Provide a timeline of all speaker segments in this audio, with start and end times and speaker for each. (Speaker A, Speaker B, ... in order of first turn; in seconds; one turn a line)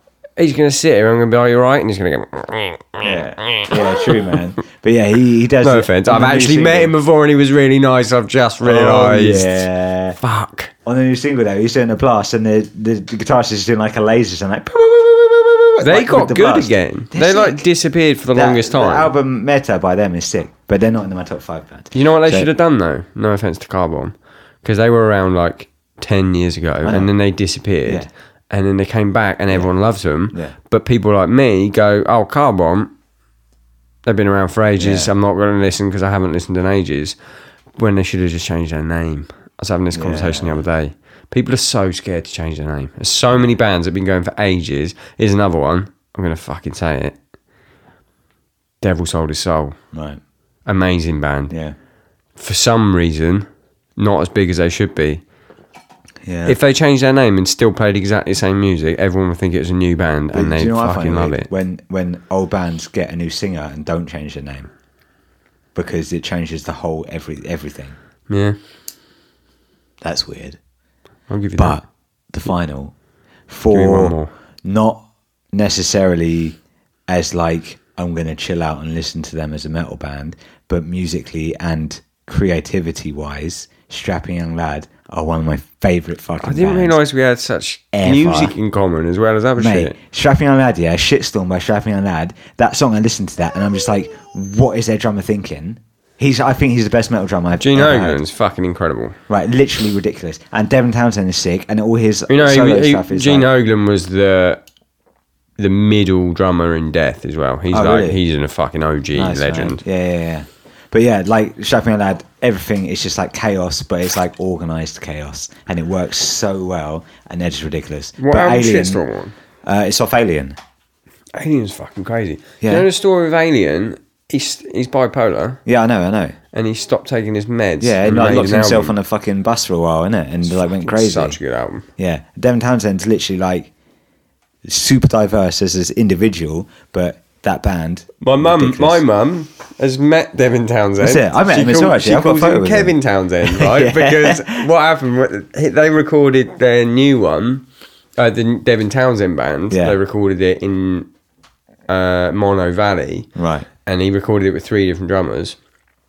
Speaker A: 0.4-4.3
Speaker B: 3.0-6.9
Speaker A: 5.6-9.6
Speaker B: 8.6-10.2
Speaker A: 10.2-10.7
Speaker B: 10.8-17.7
Speaker A: 15.8-19.1
Speaker B: 18.3-22.5
Speaker A: 21.9-32.9
Speaker B: 26.8-27.1
Speaker A: 34.0-37.1
Speaker B: 34.8-35.1
Speaker A: 37.8-47.1
Speaker B: 39.9-40.6
Speaker A: 48.8-49.8
Speaker B: 49.9-50.2
Speaker A: 50.6-51.5
Speaker B: 51.5-51.7
Speaker A: 52.4-55.2
Speaker B: 56.2-56.6
Speaker A: 56.5-61.5
Speaker B: 60.3-64.7
Speaker B: 65.7-68.0
Speaker A: 68.3-68.6
Speaker B: 70.0-70.6
Speaker A: 71.3-71.8
Speaker B: 71.6-72.9
Speaker B: 73.5-76.6
Speaker A: 73.7-74.3
Speaker B: 77.1-87.0
Speaker A: 86.4-89.9
Speaker B: 87.9-88.5
Speaker B: 89.6-98.2
Speaker A: 97.6-99.2
Speaker B: 99.3-103.5
Speaker A: 102.3-104.6
Speaker A: 105.6-109.8
Speaker B: 107.7-108.2
Speaker B: 109.1-119.0
Speaker A: 118.2-119.3
Speaker B: 119.6-120.6
Speaker A: 121.3-125.6
Speaker B: 125.7-126.3
Speaker A: 126.5-128.9
Speaker B: 127.8-131.4
Speaker A: 130.5-131.9
Speaker B: 132.0-133.7
Speaker B: 134.6-139.0
Speaker A: 138.2-147.6
Speaker B: 141.0-144.7
Speaker A: 148.2-151.1
Speaker B: 149.7-149.9
Speaker A: 151.9-153.3
Speaker B: 153.3-153.7
Speaker A: 153.8-155.6